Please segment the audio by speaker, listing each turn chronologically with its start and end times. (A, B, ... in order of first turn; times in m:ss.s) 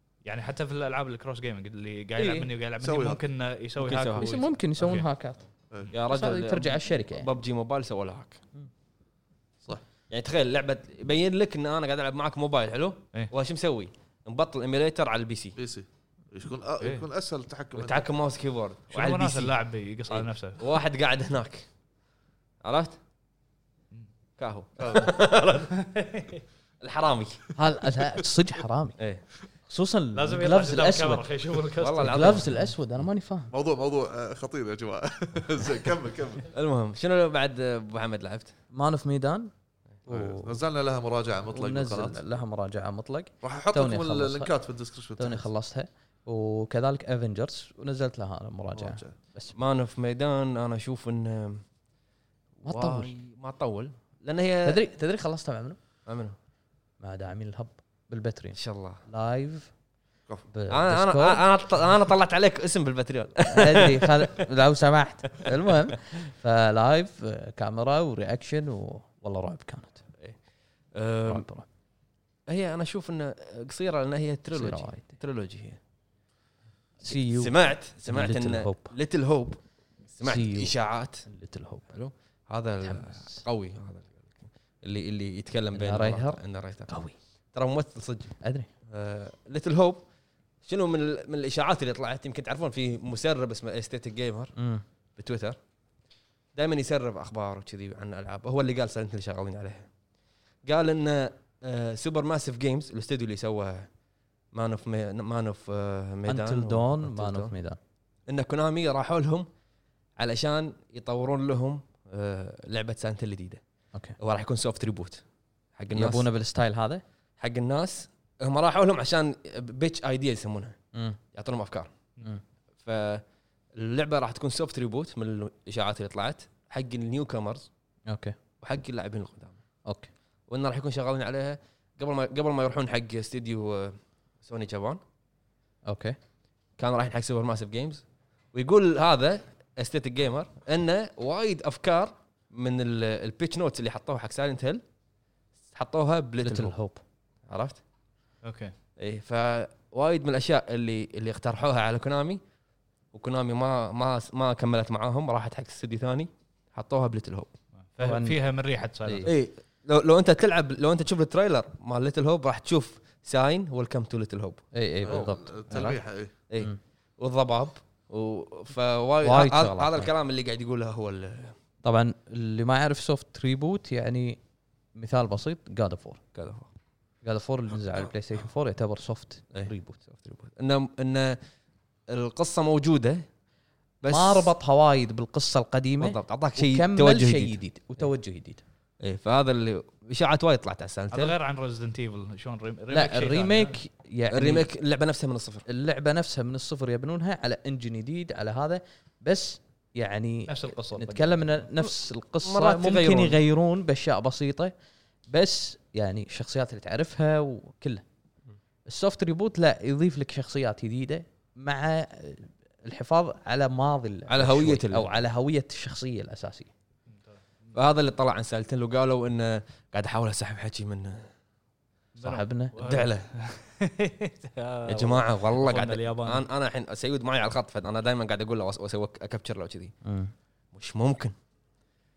0:00.2-0:05.1 A
0:02.2-0:02.5 B
0:02.8-0:03.2 C
0:03.8-0:04.4 D
0:04.2-0:05.4 B
0:05.9-0:08.4 D
0:06.1-0:07.3 B
0:10.1-0:15.6 D
0:15.6-0:18.1 C
0:16.8-0:17.1 A
0:17.8-0:19.6 D
0:18.9-0:20.6 A
0:20.1-0:21.7 D
0:22.6-0:23.0 D
0:24.4-0:25.7 D
0:24.8-0:25.2 C
0:25.6-0:26.4 A
0:26.8-0:27.5 D
0:27.6-0:29.0 B
0:29.0-0:29.2 D
0:29.7-0:31.3 B
0:30.2-0:32.4 A
0:31.8-0:32.5 D
0:32.0-0:33.5 B
0:33.5-0:36.5 C
0:36.5-0:38.5 D
0:38.7-0:39.5 B
0:40.0-0:40.6 B
0:40.1-0:42.2 C
0:41.5-0:44.5 B
0:43.4-0:45.5 C
0:45.2-0:49.6 B
0:48.8-0:49.2 C
0:49.5-0:51.6 D
0:52.6-0:53.1 B
0:52.6-0:54.8 D
0:54.6-0:55.8 B
0:56.1-0:56.4 D
0:57.0-0:59.7 B
0:58.6-0:59.0 D
1:00.5-1:01.4 B
1:00.7-1:04.3 D
1:03.5-1:10.0 B
1:10.9-1:11.5 D
1:11.3-1:11.7 B
1:12.5-1:15.8 D
1:14.5-1:15.1 B
1:17.0-1:18.9 B
1:17.1-1:21.2 D
1:20.2-1:21.9 B
1:21.9-1:27.0 D
1:22.8-1:23.4 B
1:25.7-1:27.2 B
1:27.5-1:28.4 D
1:28.4-1:28.7 B
1:28.9-1:30.1 D
1:30.6-1:34.5 D
1:34.6-1:34.8 B
1:35.2-1:35.6 D
1:36.6-1:39.9 D
1:40.6-1:43.9 D
1:44.5-1:47.5 D
1:46.3-1:47.8 B
1:48.3-1:49.5 D
1:50.2-1:53.6 D
1:54.2-1:55.2 D
1:55.8-1:56.3 D
1:55.9-1:57.0 B
1:57.4-2:00.8 D
2:01.3-2:01.9 D
2:02.8-2:03.2 D
2:03.8-2:07.7 D
2:08.1-2:08.4 B
2:08.6-2:09.6 D
2:10.5-2:15.0 D
2:15.9-2:16.2 B
2:16.8-2:24.8 D
2:25.7-2:26.8 D
2:26.4-2:27.0 B
2:27.5-2:27.8 D
2:28.4-2:28.7 A
2:29.0-2:32.4 D
2:33.1-2:37.6 D
2:38.0-2:39.3 A
2:38.0-2:38.4 B
2:39.0-2:39.3 B
2:39.3-2:44.6 D
2:44.7-2:46.0 B
2:45.0-2:46.3 C
2:46.5-2:51.6 D
2:49.2-2:50.1 B
2:51.8-2:54.4 B
2:55.0-2:56.3 B
2:56.4-2:56.7 D
2:57.2-3:00.0 B
2:59.5-3:01.4 D
3:02.1-3:03.3 D
3:04.0-3:04.5 D
3:04.1-3:08.6 B
3:06.0-3:08.1 D
3:09.0-3:11.4 D
3:11.1-3:13.8 A
3:12.9-3:14.7 B
3:14.3-3:15.6 D
3:15.7-3:24.7 B
3:20.5-3:21.5 A
3:22.4-3:23.4 D
3:25.3-3:28.0 B
3:28.9-3:36.7 B
3:34.3-3:35.1 D
3:37.8-3:41.3 D
3:42.2-3:46.4 A
3:42.2-3:42.8 B
3:42.8-3:43.3 D
3:44.9-3:50.0 D
3:50.0-3:50.3 B
3:50.7-3:51.4 D